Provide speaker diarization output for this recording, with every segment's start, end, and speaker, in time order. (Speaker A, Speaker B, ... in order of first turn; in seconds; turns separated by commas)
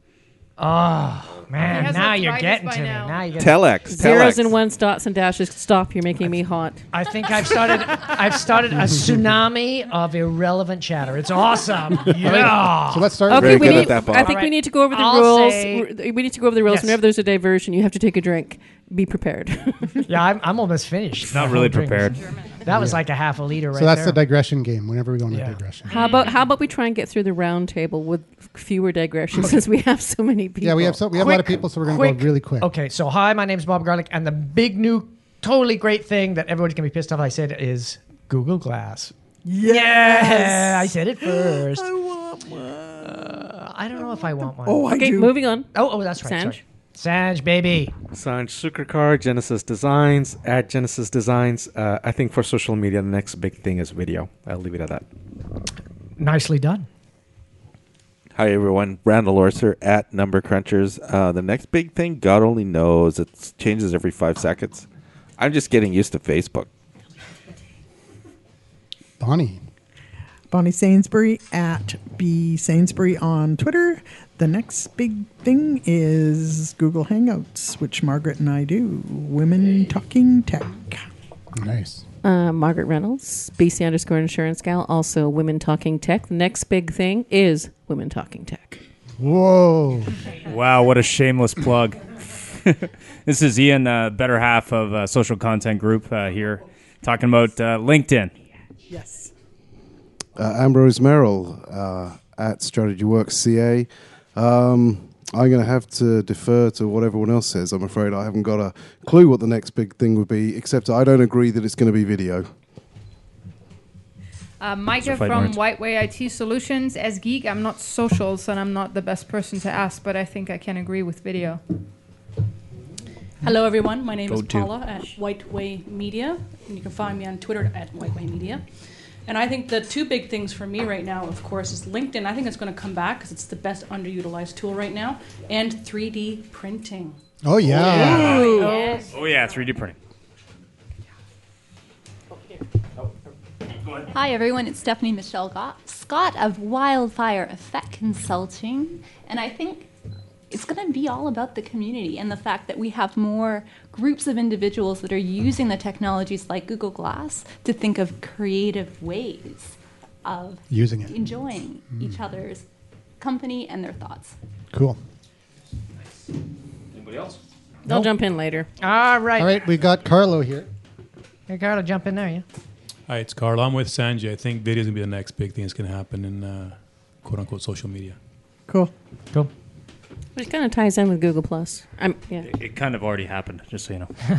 Speaker A: 0.6-3.7, Speaker B: 1.6-3.3, Speaker C: 3.4-4.5, Speaker D: 3.9-6.8, Speaker A: 6.9-15.9, Speaker E: 12.2-13.9, Speaker C: 13.3-14.3, Speaker D: 13.3-20.0, Speaker A: 16.7-17.0, Speaker A: 20.1-24.2, Speaker F: 21.3-22.2, Speaker B: 22.2-22.6, Speaker E: 22.7-23.0, Speaker E: 23.7-26.0, Speaker A: 25.3-25.6, Speaker D: 25.9-31.0, Speaker B: 25.9-26.3, Speaker E: 30.6-32.7, Speaker A: 31.1-41.9, Speaker G: 39.5-43.4, Speaker A: 43.0-44.9, Speaker G: 44.0-45.4, Speaker D: 44.9-45.7, Speaker A: 45.7-47.9, Speaker D: 46.2-46.6, Speaker H: 48.1-55.0, Speaker A: 56.2-56.9, Speaker C: 58.4-64.9, Speaker C: 65.4-66.7, Speaker E: 69.2-69.6, Speaker G: 70.5-81.1, Speaker E: 81.5-82.0, Speaker D: 82.2-88.8, Speaker E: 89.2-90.2, Speaker F: 90.5-92.0, Speaker F: 92.5-98.3, Speaker G: 98.9-99.3, Speaker I: 100.4-112.5, Speaker B: 114.6-121.6, Speaker F: 115.0-115.6, Speaker J: 123.4-128.6, Speaker F: 124.3-124.7, Speaker J: 129.2-137.2, Speaker E: 137.4-138.5, Speaker D: 137.8-139.1, Speaker B: 137.9-139.1, Speaker J: 138.1-138.7, Speaker F: 139.1-140.0, Speaker K: 144.1-149.9, Speaker K: 150.5-162.7, Speaker E: 160.7-161.2, Speaker K: 163.2-164.3, Speaker E: 164.7-165.0, Speaker F: 166.9-167.4, Speaker A: 167.9-168.1, Speaker D: 167.9-168.7, Speaker A: 168.8-169.5, Speaker E: 169.4-170.7, Speaker A: 171.5-172.5, Speaker L: 173.1-178.2, Speaker D: 180.4-182.5, Speaker F: 182.4-184.1